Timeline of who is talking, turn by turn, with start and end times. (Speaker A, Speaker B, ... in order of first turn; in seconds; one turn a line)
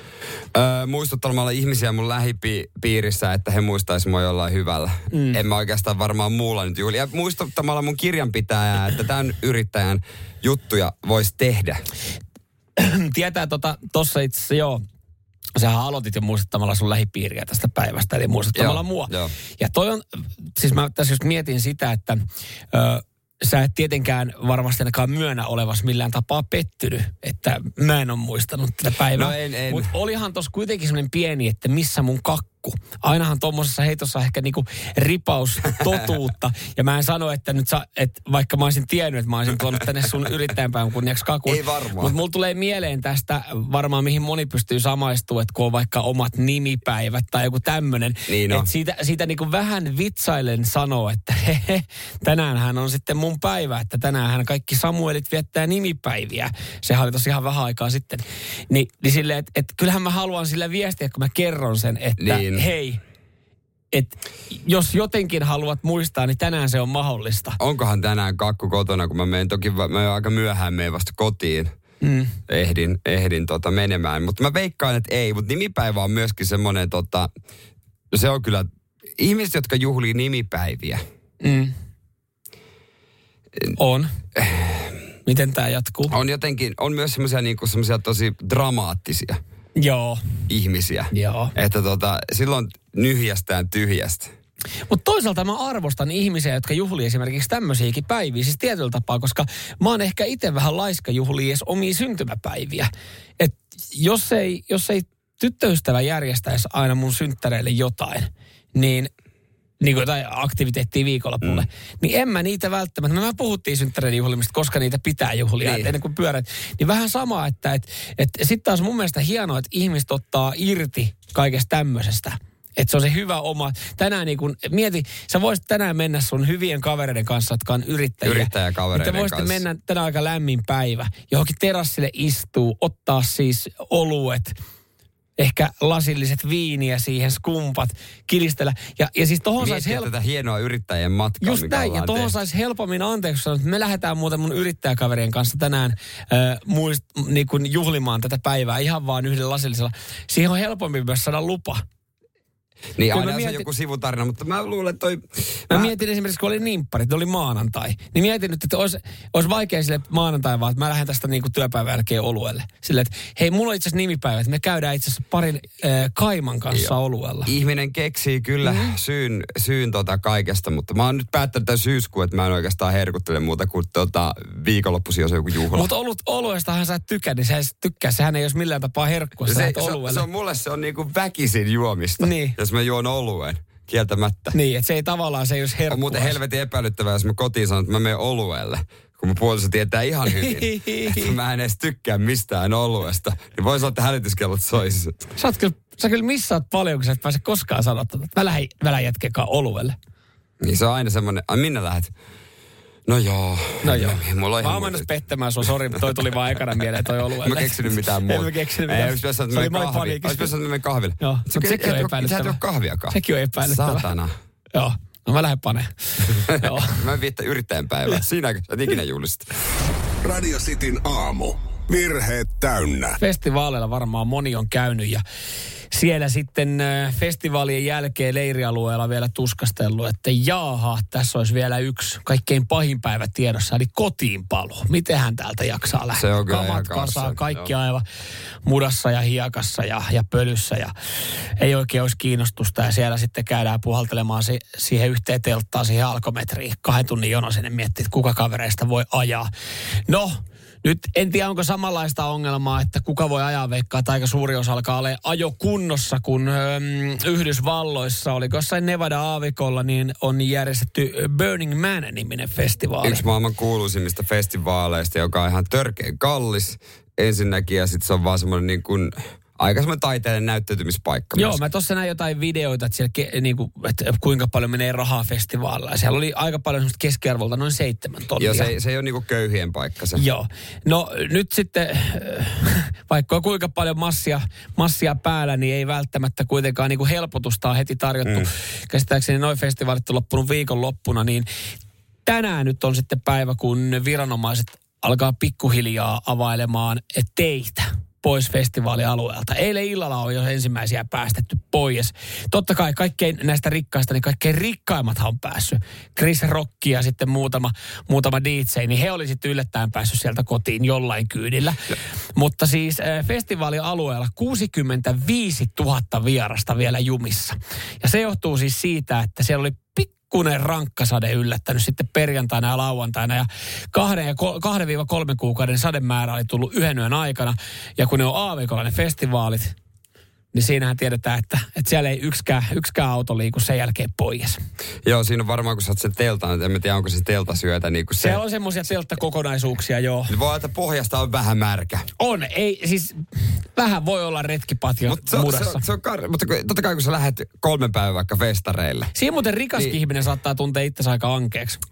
Speaker A: 0.5-11.8
Speaker B: 5.1-5.4
Speaker B: 12.8-14.8
Speaker B: 15.5-63.0
Speaker A: 18.5-19.3
Speaker A: 29.1-29.9
Speaker A: 41.5-42.1
Speaker A: 48.3-48.7
Speaker A: 62.2-62.7
Speaker B: 63.9-67.6
Speaker A: 67.6-71.7
Speaker B: 72.0-72.4
Speaker A: 72.5-77.3
Speaker A: 78.1-81.0
Speaker B: 81.4-81.7
Speaker B: 83.8-84.1
Speaker A: 84.3-85.0
Speaker B: 85.2-86.1
Speaker A: 86.1-89.4
Speaker B: 89.8-90.2
Speaker A: 90.5-94.3
Speaker B: 91.1-91.5
Speaker B: 94.9-109.1
Speaker B: 109.8-134.5
Speaker A: 115.6-115.9
Speaker A: 128.2-129.6
Speaker B: 135.4-140.1
Speaker A: 139.6-142.3
Speaker B: 141.4-151.8
Speaker A: 153.0-155.9
Speaker B: 153.1-153.7
Speaker B: 155.7-167.5
Speaker A: 167.4-175.9
Speaker B: 168.6-168.9
Speaker B: 175.7-180.2
Speaker A: 179.4-184.6
Speaker B: 182.2-182.6
Speaker B: 184.5-186.4
Speaker A: 185.9-195.2
Speaker B: 190.4-191.3
Speaker B: 195.3-199.9
Speaker A: 200.6-202.1
Speaker A: 203.1-205.1
Speaker B: 203.8-210.5
Speaker A: 207.4-214.3
Speaker B: 211.2-212.6
Speaker B: 213.1-214.1
Speaker B: 214.7-217.0
Speaker A: 216.4-219.5
Speaker C: 220.2-223.2
Speaker B: 223.2-225.2
Speaker B: 225.9-238.0
Speaker A: 236.2-237.7
Speaker B: 238.6-240.9
Speaker B: 241.6-249.5
Speaker B: 250.1-263.2
Speaker A: 263.0-271.6
Speaker B: 271.3-278.7
Speaker A: 278.4-280.2
Speaker B: 280.2-291.5
Speaker B: 292.2-329.7
Speaker B: 330.5-334.6
Speaker A: 335.0-338.4
Speaker B: 338.2-340.3
Speaker A: 340.3-342.1
Speaker B: 342.2-345.8
Speaker A: 345.1-349.1
Speaker B: 349.1-351.8